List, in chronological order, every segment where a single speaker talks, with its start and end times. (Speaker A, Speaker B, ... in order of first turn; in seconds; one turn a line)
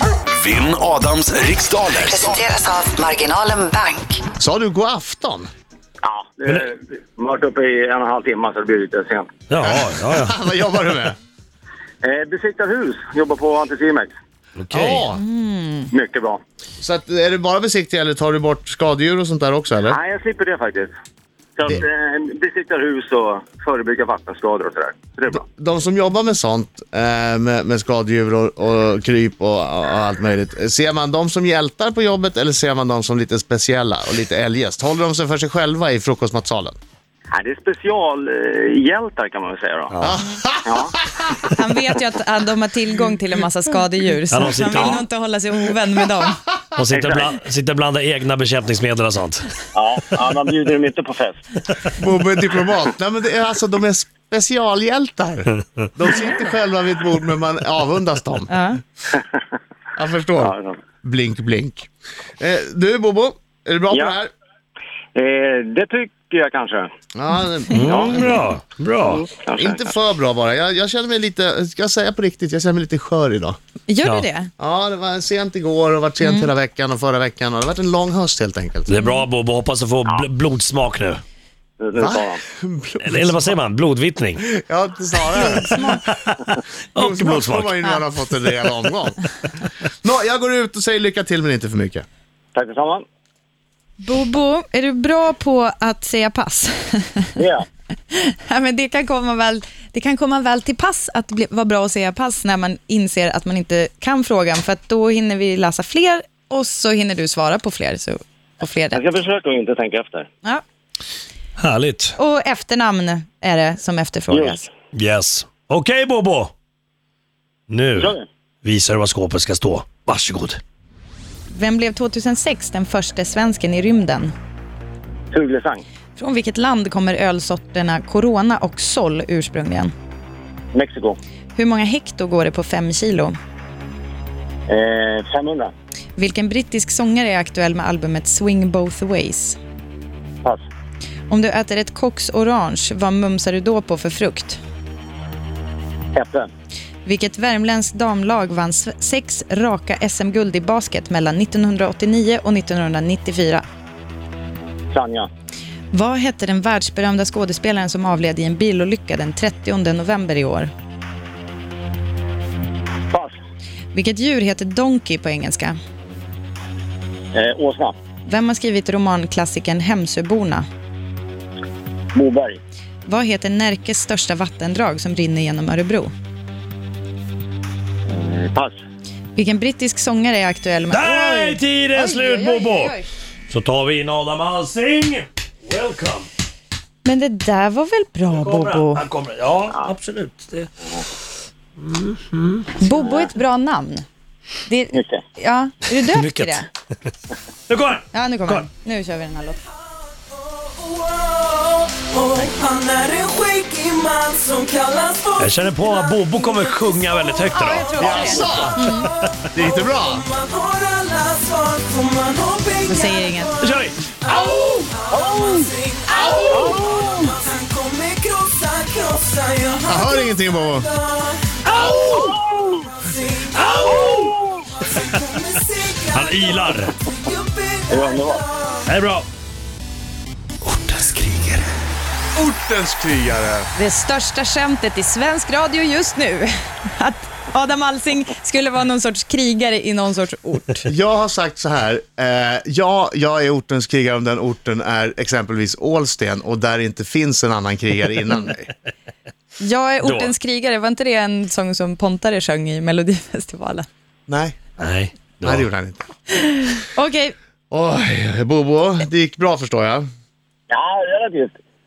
Speaker A: 0.3-2.4
Speaker B: 2.0-4.2
Speaker C: 4.4-5.5
Speaker D: 6.0-9.3
Speaker E: 9.5-10.4
Speaker C: 9.6-11.2
Speaker D: 12.0-14.1
Speaker E: 14.6-15.1
Speaker C: 14.7-15.2
Speaker F: 15.1-15.9
Speaker D: 15.9-16.4
Speaker C: 16.8-20.0
Speaker D: 19.9-20.9
Speaker D: 21.6-25.4
Speaker C: 25.3-36.8
Speaker D: 37.3-40.0
Speaker E: 39.9-40.2
Speaker C: 40.0-41.4
Speaker D: 40.6-41.0
Speaker F: 41.5-46.4
Speaker E: 44.3-45.0
Speaker E: 46.7-49.5
Speaker D: 46.9-47.3
Speaker D: 49.7-51.4
Speaker C: 52.0-58.5
Speaker F: 58.5-58.8
Speaker D: 59.1-59.4
Speaker C: 60.0-61.9
Speaker D: 60.4-60.8
Speaker C: 62.4-64.3
Speaker D: 63.9-64.2
Speaker D: 65.1-66.9
Speaker C: 67.1-68.4
Speaker E: 67.7-69.2
Speaker D: 67.8-68.2
Speaker D: 69.0-69.9
Speaker C: 69.5-73.6
Speaker F: 73.9-74.5
Speaker C: 74.6-78.9
Speaker F: 76.2-76.5
Speaker E: 78.9-81.2
Speaker D: 81.8-82.4
Speaker C: 82.0-83.6
Speaker E: 83.0-84.5
Speaker C: 84.5-85.7
Speaker F: 85.3-86.0
Speaker E: 85.4-87.9
Speaker C: 87.0-89.3
Speaker C: 90.0-92.0
Speaker D: 92.5-93.0
Speaker F: 94.0-97.4
Speaker D: 97.4-97.6
Speaker F: 98.1-109.0
Speaker D: 108.9-110.3
Speaker E: 111.6-112.1
Speaker F: 112.2-114.6
Speaker D: 114.3-114.7
Speaker E: 114.9-116.5
Speaker E: 117.7-120.6
Speaker D: 117.9-118.2
Speaker F: 121.5-124.3
Speaker D: 125.3-125.8
Speaker F: 126.2-129.9
Speaker D: 130.7-131.2
Speaker F: 131.5-133.3
Speaker D: 134.7-135.7
Speaker F: 136.2-139.6
Speaker F: 141.3-144.6
Speaker D: 146.1-146.5
Speaker F: 147.0-153.6
Speaker D: 154.9-155.3
Speaker F: 155.9-160.7
Speaker F: 163.9-165.8
Speaker D: 167.3-167.9
Speaker F: 168.2-170.7
Speaker D: 172.1-172.6
Speaker F: 173.1-176.1
Speaker D: 178.1-178.7
Speaker F: 179.3-183.1
Speaker E: 180.9-182.9
Speaker E: 183.5-186.3
Speaker F: 187.0-189.0
Speaker E: 188.3-190.7
Speaker E: 191.8-192.7
Speaker F: 192.8-194.1
Speaker D: 193.0-193.3
Speaker F: 194.7-196.7
Speaker D: 194.9-195.2
Speaker E: 196.1-196.6
Speaker E: 197.7-198.7
Speaker F: 198.1-199.6
Speaker G: 200.2-207.4
Speaker E: 205.4-209.4
Speaker F: 207.5-209.1
Speaker C: 208.0-208.9
Speaker C: 209.5-210.2
Speaker G: 209.7-228.8
Speaker F: 212.8-213.5
Speaker E: 213.6-214.0
Speaker C: 214.3-214.8
Speaker D: 215.1-215.7
Speaker C: 216.1-217.4
Speaker D: 216.4-216.9
Speaker C: 219.8-220.9
Speaker E: 221.7-222.1
Speaker C: 221.7-222.3
Speaker D: 222.1-222.8
Speaker E: 223.9-224.2
Speaker D: 223.9-224.6
Speaker E: 226.1-227.0
Speaker D: 227.9-228.4
Speaker E: 228.8-229.3
Speaker E: 230.7-231.6
Speaker C: 232.3-233.7
Speaker F: 233.8-240.8
Speaker C: 240.8-248.7
Speaker F: 249.6-253.9
Speaker E: 250.0-250.3
Speaker C: 254.3-254.6
Speaker E: 254.8-255.7
Speaker C: 255.4-256.1
Speaker F: 256.3-257.3
Speaker C: 257.7-260.1
Speaker D: 260.7-261.5